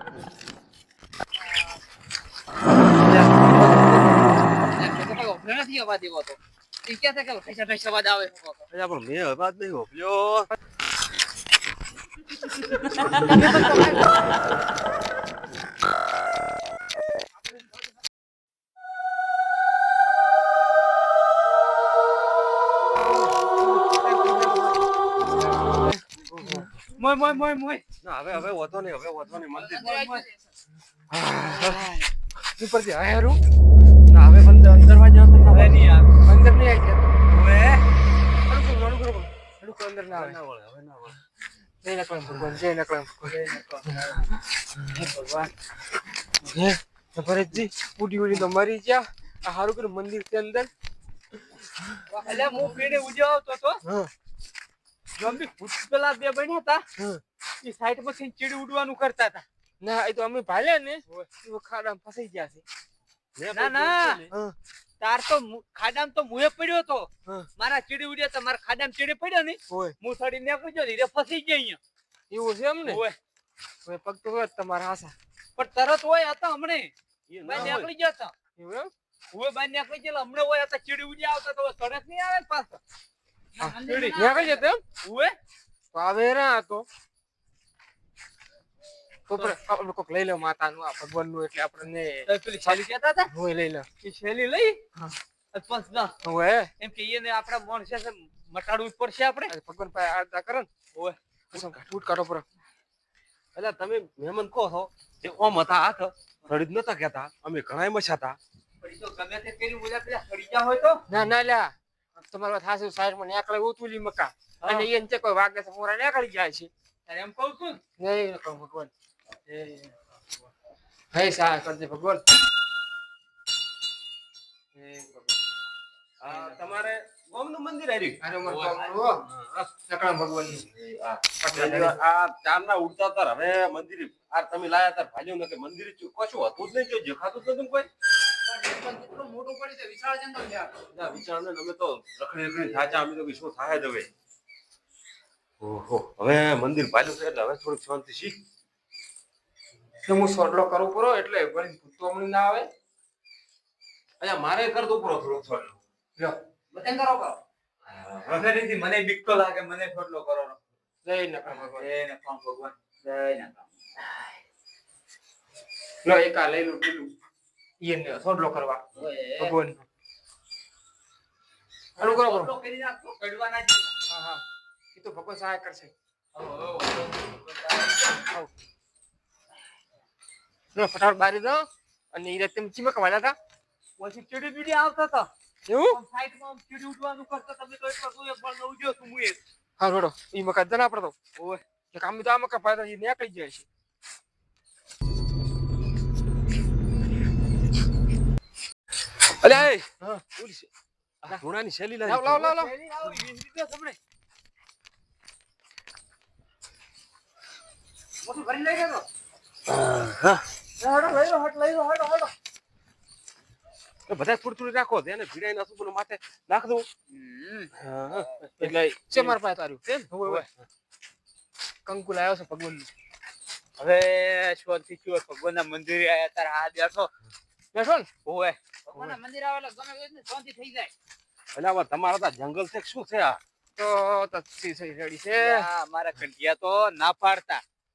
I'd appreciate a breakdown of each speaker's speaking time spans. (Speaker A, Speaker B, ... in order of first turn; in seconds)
Speaker A: 3.5-4.3, 13.4-13.9, 23.9-24.7, 25.4-26.7, 32.5-33.4, 36.2-37.1, 38.5-40.4, 41.8-43.4, 46.5-50.7, 53.8-54.1, 57.0-57.2, 59.8-62.6, 69.7-69.9, 72.3-73.0, 73.8-75.1, 77.5-77.8, 78.6-78.9, 83.6-84.8, 85.9-86.8, 89.3-93.9, 96.2-96.7, 99.5-100.7, 101.5-102.4, 111.1-111.7, 112.3-116.7, 118.0-118.9, 121.1-122.2, 124.8-125.3, 128.2-129.2, 129.9-130.7, 131.4-132.0, 150.1-152.7, 161.0-161.9, 166.0-167.1, 167.8-168.8, 169.4-169.8, 172.0-172.5, 174.1-174.4, 174.9-175.9, 180.7-183.3, 185.7-186.0, 189.8-191.1, 191.9-193.7, 199.5-200.2, 202.0-202.7, 218.6-220.4, 221.8-222.9, 227.7-228.1, 233.8-235.7
Speaker B: 4.5-8.6, 13.3-14.1, 29.5-30.4, 77.5-77.9, 83.6-84.6, 138.4-140.8, 156.7-157.4, 208.3-209.0, 228.9-230.9
Speaker C: 8.7-10.5, 26.3-26.7, 28.0-30.0, 31.1-31.9, 34.1-35.8, 40.1-41.2, 63.4-64.3, 77.3-77.9, 101.5-101.8, 103.5-108.4, 126.2-128.2, 129.3-129.7, 130.6-137.9, 140.9-144.1, 145.6-148.4, 154.2-155.8, 157.9-158.4, 199.4-200.7, 201.2-202.6, 209.7-210.4, 214.1-216.8, 217.8-219.3, 219.9-220.6, 231.5-233.4
Speaker D: 26.9-27.8, 29.8-30.2, 31.5-32.1, 35.5-36.1, 37.3-37.8, 43.2-44.2, 44.9-45.5, 52.1-53.8, 55.2-56.8, 57.6-59.5, 63.5-64.2, 65.0-71.8, 72.8-73.2, 75.5-76.9, 77.4-78.3, 79.3-82.8, 83.6-84.2, 85.0-85.3, 92.3-93.3, 94.0-94.8, 95.5-96.1, 96.8-99.5, 108.8-111.0, 114.6-114.9, 117.0-117.8, 119.5-119.9, 128.4-129.0, 158.3-160.6, 161.5-163.7, 169.0-169.5, 172.0-173.9, 176.3-178.3, 184.0-185.3, 185.8-189.4, 191.3-191.6, 202.5-204.0, 210.8-212.3, 217.1-217.7, 223.8-227.1, 228.2-228.6, 235.3-237.6